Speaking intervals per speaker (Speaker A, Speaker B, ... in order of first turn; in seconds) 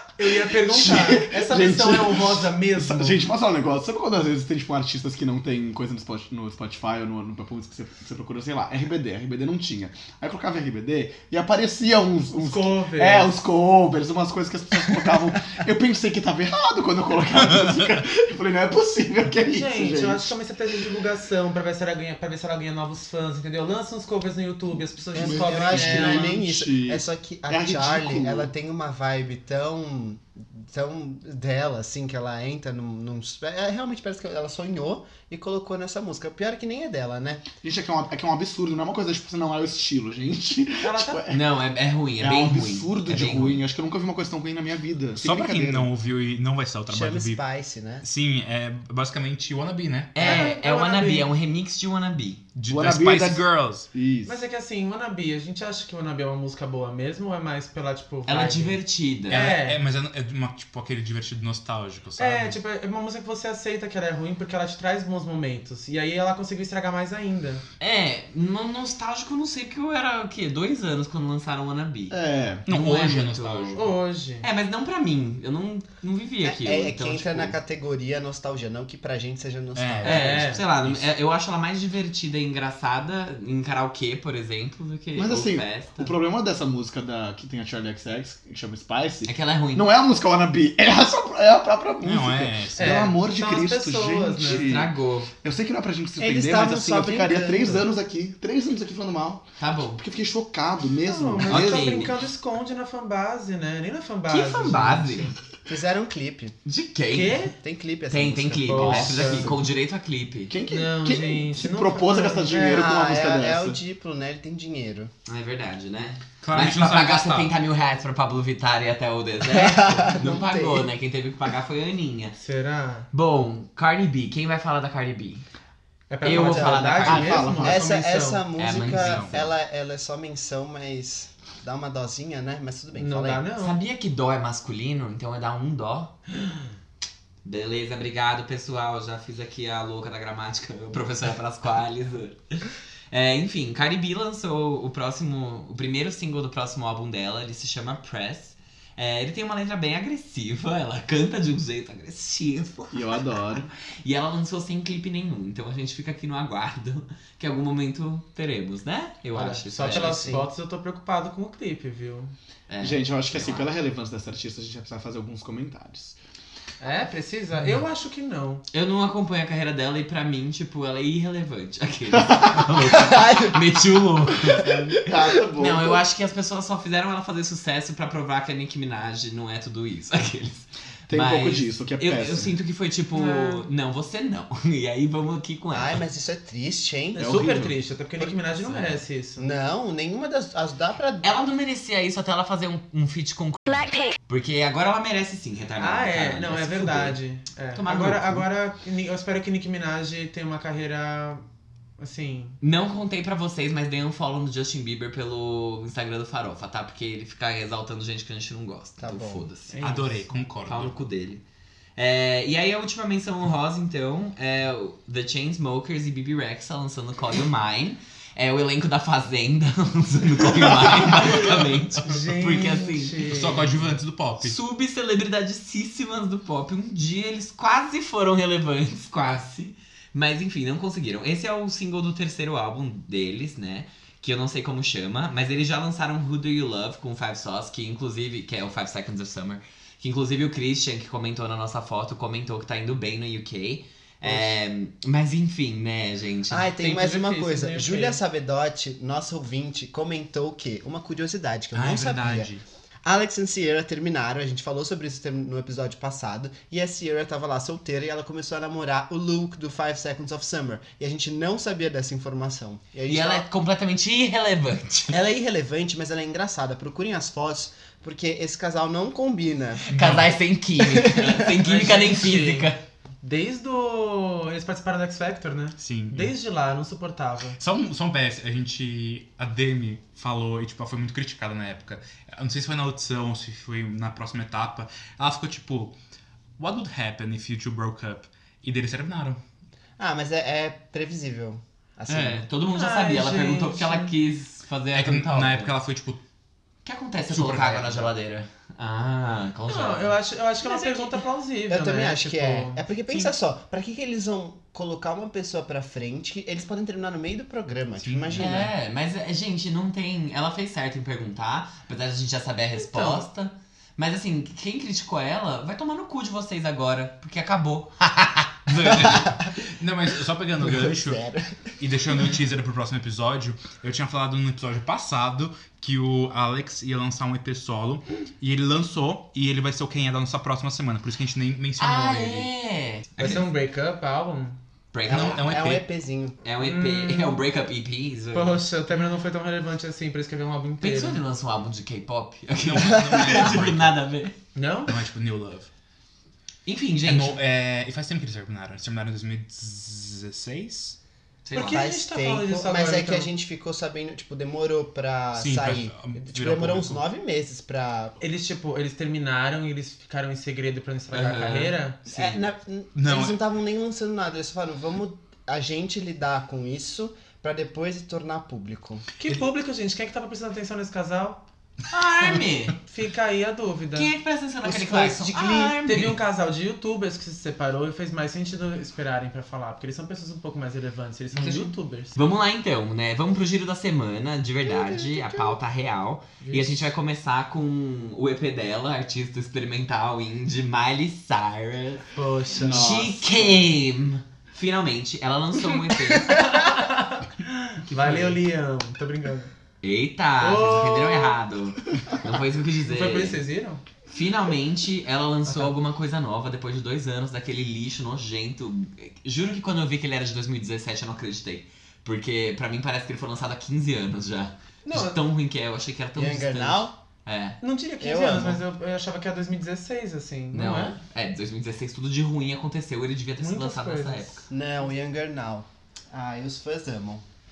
Speaker A: 0.2-3.2, 12.4-13.4, 19.4-26.4, 40.8-41.2, 50.2-51.3, 54.2-59.8, 62.2-67.6, 73.7-74.5, 80.0-80.6, 92.8-94.8, 101.0-105.3, 107.1-107.5, 108.7-109.5, 110.7-112.6, 122.4-123.1, 126.1-128.4, 132.9-133.8, 159.3-162.3, 166.8-168.6, 183.1-183.7, 187.1-189.5, 195.8-201.4, 202.0-202.6, 209.7-210.4, 222.0-223.9, 246.8-248.2, 271.4-277.6, 292.7-294.1, 299.7-303.3, 312.9-313.2, 333.2-334.6, 336.6-337.4, 338.3-341.2, 344.5-344.9, 351.5-353.3, 358.2-362.3, 369.2-371.4, 372.9-374.1, 375.9-382.1, 384.7-385.4, 386.4-386.9, 392.1-392.9, 396.1-399.5, 400.4-401.4, 402.9-403.8, 405.4-405.7, 414.8-415.2, 417.6-421.0, 423.4-424.4
Speaker B: 0.6-20.3, 25.1-28.5, 37.6-41.4, 42.2-45.9, 52.7-54.4, 72.1-72.7, 85.2-102.0, 108.8-109.7, 110.5-113.8, 127.0-127.8, 152.9-153.7, 162.8-166.2, 172.2-172.6, 174.9-176.0, 181.1-182.5, 187.2-187.8, 392.6-393.6
Speaker C: 25.1-37.5, 46.9-48.0, 76.4-80.5, 96.2-97.9, 105.7-106.5, 107.6-109.0, 112.5-115.1, 119.5-120.9, 126.3-133.4, 159.8-160.5, 172.9-173.6, 185.7-187.5, 189.4-191.3, 209.0-209.5, 244.2-244.6, 246.5-252.5, 253.0-263.4, 265.1-269.9, 270.8-271.3, 290.0-292.4, 301.7-308.7, 320.6-321.7, 335.1-336.4, 342.8-343.4, 351.6-358.2, 362.1-369.0, 374.6-375.8, 416.1-416.9, 418.0-418.6, 424.5-427.2
Speaker D: 41.3-43.6, 50.1-52.4, 58.2-59.5, 67.8-73.9, 74.4-77.5, 80.0-86.1, 89.2-89.9, 94.4-95.3, 99.6-100.0, 101.4-102.2, 104.3-105.3, 106.6-107.5, 108.1-110.5, 115.3-122.4, 123.1-125.4, 126.2-127.7, 128.6-129.5, 133.6-136.1, 137.4-153.4, 154.0-160.4, 162.7-163.7, 168.7-186.0, 188.6-189.0, 191.2-197.2, 197.7-198.4, 202.6-209.8, 210.7-211.4, 212.0-223.2, 224.4-246.8, 263.1-265.2, 269.9-272.8, 292.1-295.7, 296.8-300.2, 300.7-301.1, 308.3-319.3, 331.8-333.5, 334.9-335.5, 336.4-338.6, 340.8-344.4, 346.6-347.4, 351.4-351.8, 361.1-361.8, 371.9-372.8, 373.9-376.2, 381.3-392.1, 392.6-396.5, 398.0-398.3, 399.8-403.4, 404.1-417.6, 420.5-424.4
Speaker E: 45.2-47.4, 48.0-50.4, 52.5-53.9, 59.3-62.6, 72.7-73.9, 79.7-81.1, 92.0-93.1, 116.4-117.5, 128.8-129.3, 209.8-211.0, 221.2-221.6, 223.2-224.6, 251.7-252.6, 269.9-270.3, 275.8-276.3, 277.6-286.0, 286.6-289.4, 294.9-296.2, 297.3-298.1, 308.1-308.5, 318.9-332.5, 335.1-335.8, 342.6-344.0, 344.9-345.7, 347.0-351.0, 355.3-357.0, 362.9-363.4